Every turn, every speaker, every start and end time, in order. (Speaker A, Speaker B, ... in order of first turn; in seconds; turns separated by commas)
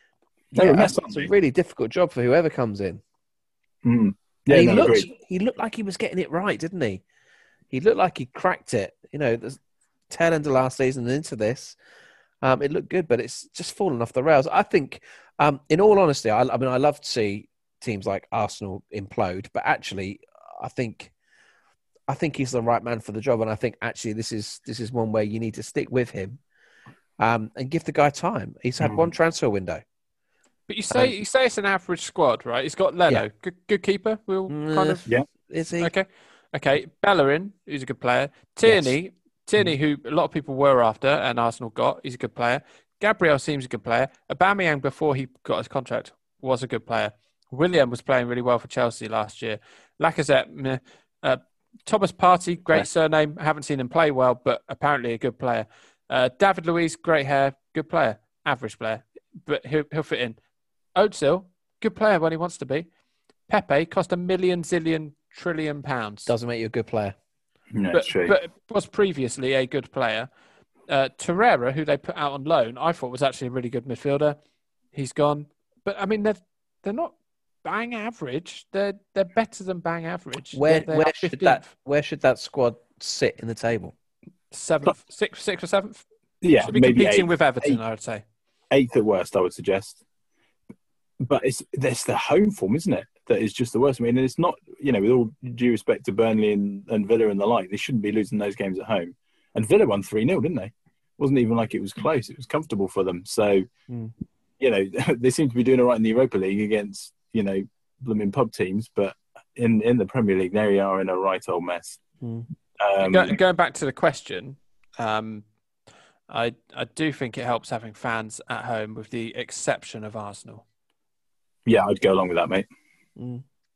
Speaker A: 0.5-3.0, Speaker B: 0.5-1.3, Speaker B: 3.8-5.1, Speaker A: 4.5-7.0, Speaker A: 7.7-9.6, Speaker A: 10.1-11.8, Speaker A: 12.4-21.1, Speaker A: 22.1-26.4, Speaker A: 27.2-29.8, Speaker B: 28.8-29.1, Speaker C: 30.7-35.0, Speaker A: 34.5-35.9, Speaker C: 35.8-60.4, Speaker A: 38.7-39.0, Speaker C: 61.0-62.9, Speaker C: 63.5-66.3, Speaker A: 66.3-67.2, Speaker B: 67.7-68.3, Speaker C: 67.9-70.3, Speaker C: 70.9-74.4, Speaker C: 74.9-81.7, Speaker A: 80.5-83.9, Speaker C: 84.5-86.0, Speaker B: 86.4-87.8, Speaker C: 86.6-88.2, Speaker B: 88.7-90.0, Speaker B: 91.2-103.7, Speaker B: 104.6-112.0, Speaker A: 112.2-112.5, Speaker B: 112.8-113.4, Speaker C: 113.0-115.5, Speaker C: 116.3-120.6, Speaker B: 121.7-122.7, Speaker A: 123.2-123.4